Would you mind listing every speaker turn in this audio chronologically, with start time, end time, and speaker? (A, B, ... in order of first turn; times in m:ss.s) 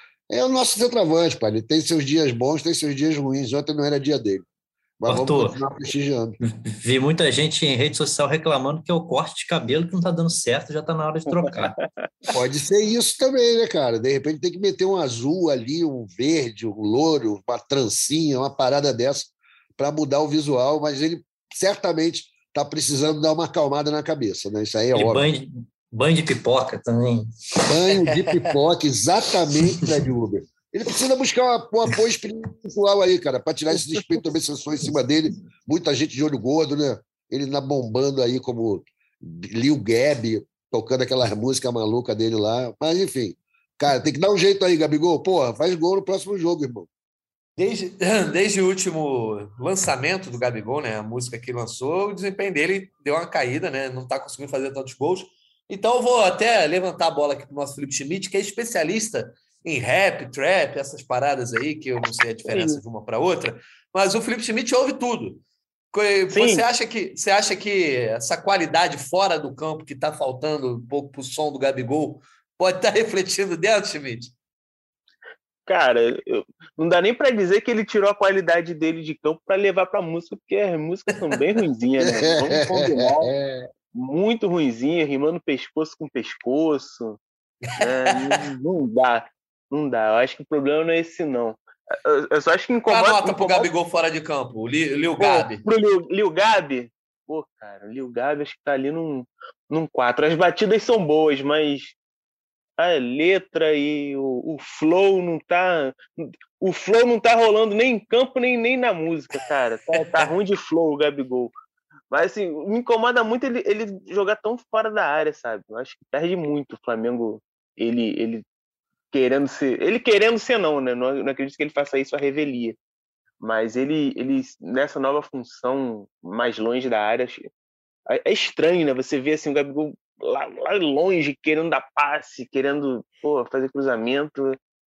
0:00.3-0:04.4 A
0:05.0-0:06.4 A
0:05.1-0:05.6 B
0:06.4-0:11.8 B
0:12.3-0:25.2 A
0:24.9-0:27.3 B
0:27.6-0:46.9 A
0:28.1-0:28.4 C
0:47.6-1:05.4 C
1:02.5-1:02.8 D
1:05.9-1:14.3 C
1:06.3-1:06.6 D
1:15.7-1:23.3 D
1:22.0-1:23.7 A
1:23.9-1:27.2 D
1:27.7-1:28.2 C
1:27.8-1:33.7 D
1:32.9-1:35.6 C
1:35.2-1:42.0 D
1:42.8-1:51.5 D
1:52.1-1:58.4 D
1:59.1-2:02.8 D
2:03.4-2:07.5 D
2:08.1-2:14.6 D